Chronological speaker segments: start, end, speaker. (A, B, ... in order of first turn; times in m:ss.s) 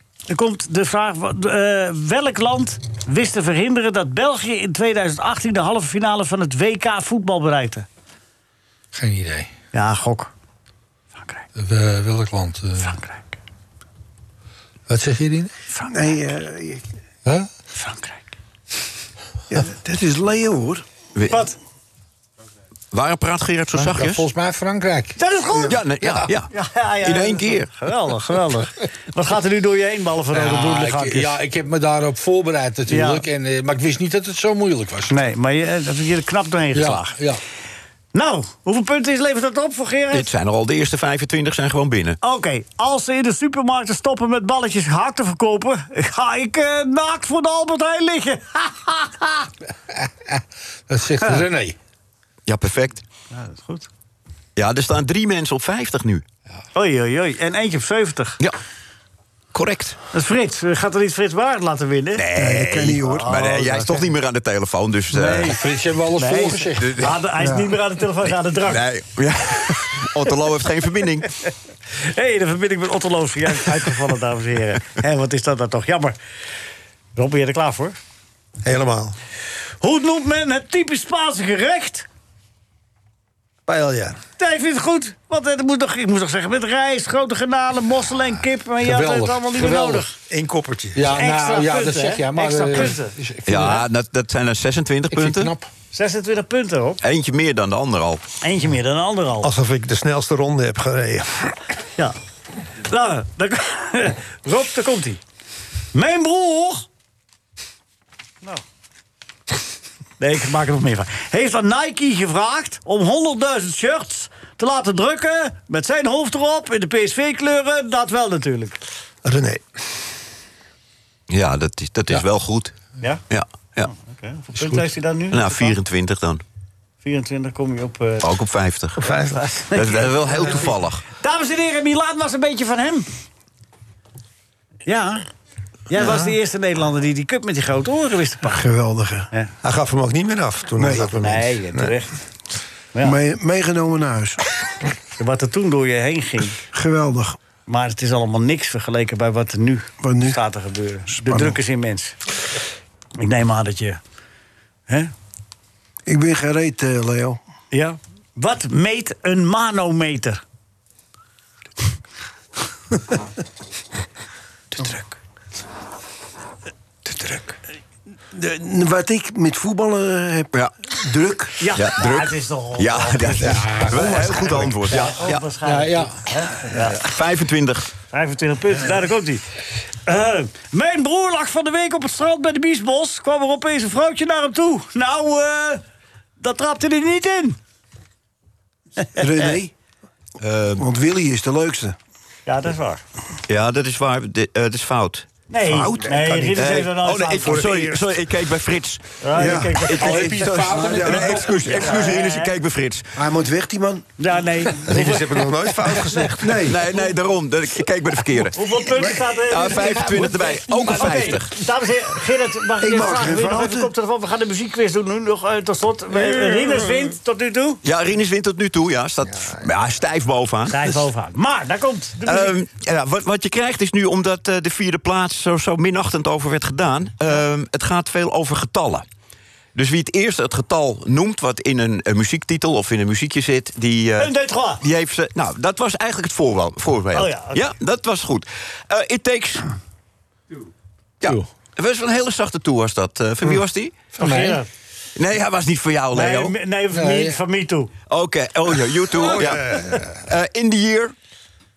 0:00.3-0:07.9 A
0:08.9-0:09.5 B
0:09.7-0:10.3 A
0:11.2-0:11.4 A
0:11.6-0:13.0 B
0:12.8-0:13.3 A
0:14.9-0:15.5 B
0:15.7-0:16.0 A
0:15.9-0:16.8 C
0:17.2-0:17.5 B
0:17.7-0:18.3 A
0:19.5-0:20.8 C
0:21.1-0:21.4 D
0:21.3-0:21.6 A
0:22.9-0:24.2 D
0:23.7-0:25.2 B
0:25.2-0:25.8 A
0:25.7-0:27.7 D
0:26.0-0:26.3 B
0:26.5-0:31.4 A
0:30.3-0:35.2 B
0:32.9-0:33.2 A
0:35.1-0:37.2 A
0:36.7-0:37.4 B
0:38.1-0:40.3 A
0:40.1-0:42.2 D
0:42.2-0:49.5 A
0:49.9-0:51.8 B
0:52.4-0:53.0 D
0:53.3-0:53.9 A
0:54.6-0:56.2 D
0:56.7-0:58.4 A
0:59.5-1:00.0 D
1:00.1-1:02.3 A
1:02.2-1:05.6 D
1:02.3-1:03.3 C
1:02.9-1:04.1 A
1:05.1-1:05.5 A
1:05.1-1:06.9 B
1:06.2-1:08.8 A
1:06.3-1:07.2 D
1:07.4-1:07.7 C
1:08.6-1:11.3 D
1:12.1-1:16.2 A
1:17.2-1:18.0 A
1:18.6-1:19.1 E
1:19.8-1:22.1 A
1:23.7-1:24.2 E
1:24.4-1:30.2 A
1:28.8-1:30.0 B
1:30.3-1:31.1 E
1:30.9-1:33.8 B
1:31.1-1:33.1 A
1:33.4-1:35.5 D
1:35.1-1:35.7 B
1:35.9-1:37.0 A
1:37.0-1:38.2 D
1:38.4-1:39.5 A
1:39.4-1:41.6 E
1:42.8-1:45.2 A
1:45.9-1:46.8 A
1:50.2-1:58.8 A
1:59.2-1:59.8 C
2:01.3-2:02.7 D
2:03.3-2:03.9 D
2:03.8-2:05.7 A
2:04.6-2:04.8 B
2:05.3-2:06.4 D
2:07.0-2:08.3 A
2:08.2-2:09.1 D
2:09.0-2:09.4 B
2:09.3-2:13.1 A
2:09.7-2:11.0 D
2:14.9-2:15.2 A
2:15.9-2:18.6 A
2:15.9-2:16.3 C
2:18.4-2:19.3 C
2:19.6-2:21.9 E
2:20.8-2:21.2 C
2:21.1-2:22.2 A
2:23.0-2:24.4 C
2:25.2-2:26.6 A
2:26.7-2:27.4 C
2:27.6-2:32.2 A
2:30.0-2:30.4 C
2:31.1-2:31.6 C
2:33.2-2:34.0 A
2:36.1-2:37.4 C
2:37.7-2:40.4 A
2:48.3-2:51.6 C
2:51.6-2:57.0 A
2:51.7-2:55.5 D
2:53.4-2:55.0 B
2:55.6-2:56.1 B
2:57.0-2:57.9 D
2:58.1-2:59.4 A
3:00.1-3:05.8 A
3:06.4-3:07.6 A
3:09.2-3:09.7 C
3:10.4-3:10.9 D
3:10.8-3:12.0 C
3:12.5-3:13.0 A
3:13.5-3:15.3 D
3:15.5-3:17.7 A
3:15.6-3:16.8 C
3:16.5-3:20.3 D
3:17.5-3:18.1 E
3:19.2-3:20.3 A
3:19.3-3:22.1 C
3:19.9-3:21.8 B
3:20.8-3:23.2 D
3:21.8-3:22.5 A
3:23.2-3:24.1 C
3:24.2-3:26.4 A
3:24.8-3:26.6 E
3:26.4-3:27.0 C
3:26.6-3:28.6 D
3:28.5-3:30.4 A
3:28.9-3:30.3 C
3:29.4-3:31.5 D
3:29.8-3:31.4 B
3:30.9-3:37.8 A
3:32.8-3:33.9 C
3:37.8-3:41.0 D
3:40.7-3:42.6 A
3:42.2-3:49.0 D
3:49.7-3:59.7 D
3:54.2-3:54.8 A
3:57.1-3:57.7 A
4:01.2-4:04.0 D
4:04.1-4:04.6 B
4:04.2-4:04.7 A
4:05.2-4:06.5 D
4:06.1-4:07.9 A
4:06.9-4:07.4 B
4:08.1-4:11.1 D
4:09.4-4:09.7 A